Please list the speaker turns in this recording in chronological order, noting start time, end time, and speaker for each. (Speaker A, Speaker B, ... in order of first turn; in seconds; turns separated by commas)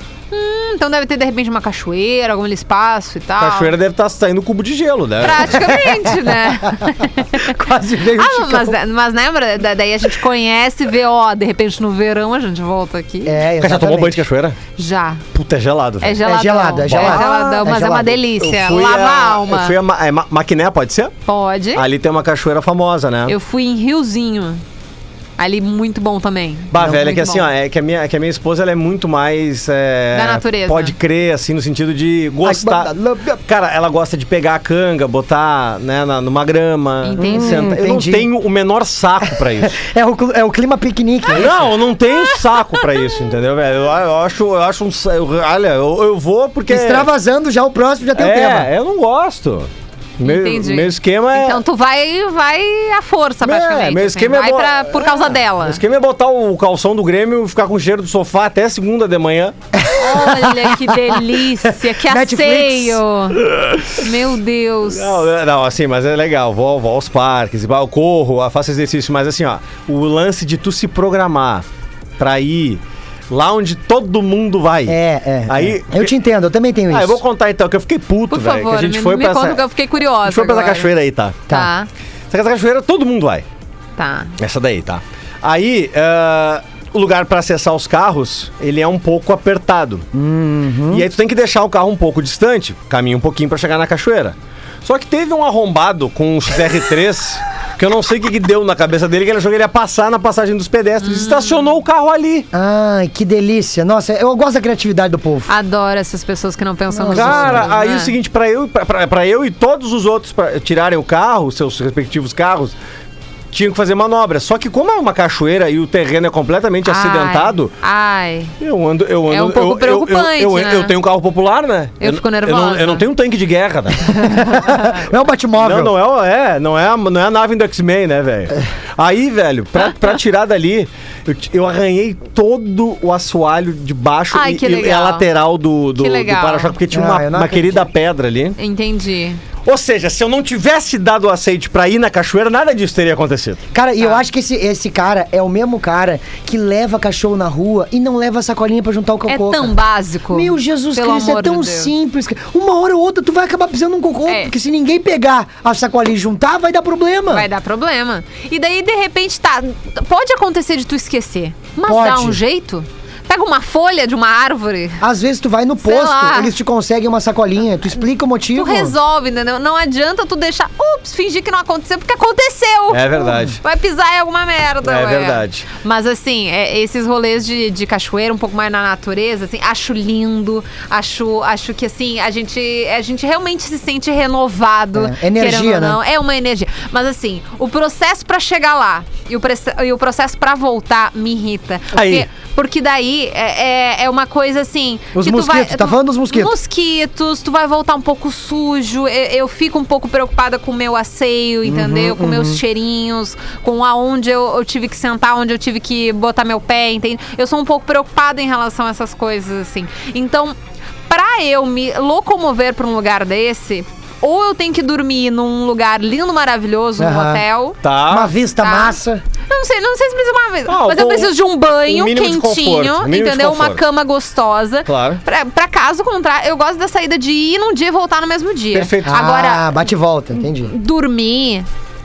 Speaker A: 0.3-3.7, Speaker B: 3.4-5.6, Speaker A: 5.2-7.5, Speaker C: 5.5-8.8, Speaker A: 8.2-13.4, Speaker C: 13.2-14.2, Speaker B: 13.6-14.6, Speaker A: 14.8-15.2, Speaker B: 15.3-16.2, Speaker A: 16.0-19.7, Speaker C: 16.2-18.2, Speaker B: 16.9-17.7, Speaker B: 18.4-21.1, Speaker A: 21.3-21.8, Speaker B: 21.8-23.4, Speaker A: 23.3-24.6, Speaker A: 25.4-27.4, Speaker B: 26.7-39.8, Speaker C: 26.8-27.3, Speaker A: 30.1-30.9, Speaker C: 32.4-33.4, Speaker A: 37.0-37.7, Speaker C: 37.2-38.3, Speaker C: 39.5-41.7, Speaker B: 41.4-47.1, Speaker C: 46.7-48.7, Speaker B: 48.2-51.6, Speaker A: 50.2-55.8, Speaker B: 53.4-59.5, Speaker C: 59.8-60.7, Speaker A: 60.0-63.4, Speaker C: 62.0-63.0, Speaker B: 63.4-64.0, Speaker A: 64.0-65.2, Speaker B: 64.9-71.7, Speaker B: 72.2-76.1, Speaker C: 74.9-77.2, Speaker B: 76.9-79.6, Speaker A: 78.3-80.9, Speaker B: 80.2-81.4, Speaker A: 81.5-81.9, Speaker B: 82.3-83.5, Speaker A: 84.0-84.3, Speaker B: 84.4-90.1, Speaker C: 90.1-91.1, Speaker B: 90.9-102.5, Speaker A: 101.0-101.6, Speaker C: 102.5-105.5, Speaker A: 105.5-108.1, Speaker C: 106.9-107.8, Speaker B: 107.1-112.7, Speaker B: 113.5-117.7, Speaker A: 116.8-118.5, Speaker B: 118.6-124.2, Speaker A: 119.3-120.9, Speaker A: 122.0-123.0, Speaker C: 124.1-125.9, Speaker A: 124.2-125.0, Speaker B: 125.6-138.6, Speaker A: 134.3-135.3, Speaker A: 136.0-136.8, Speaker C: 136.9-137.9, Speaker A: 138.6-139.4, Speaker B: 139.7-143.6, Speaker C: 143.7-149.8, Speaker A: 149.3-151.9, Speaker C: 150.3-157.5, Speaker A: 154.3-154.5, Speaker A: 157.3-165.0, Speaker C: 161.8-162.4, Speaker C: 165.0-168.9, Speaker A: 165.8-166.5, Speaker A: 168.5-210.6, Speaker B: 172.9-173.6, Speaker B: 174.8-175.7, Speaker C: 184.9-186.0, Speaker B: 191.9-192.3, Speaker C: 195.2-196.5, Speaker C: 201.7-202.6, Speaker A: 211.1-217.8, Speaker C: 217.0-217.4, Speaker B: 217.8-218.3, Speaker C: 218.1-219.2, Speaker A: 218.6-219.0, Speaker A: 219.5-229.8, Speaker B: 220.7-223.8, Speaker B: 224.9-225.2, Speaker B: 228.7-229.1, Speaker C: 229.0-230.7, Speaker A: 230.4-231.7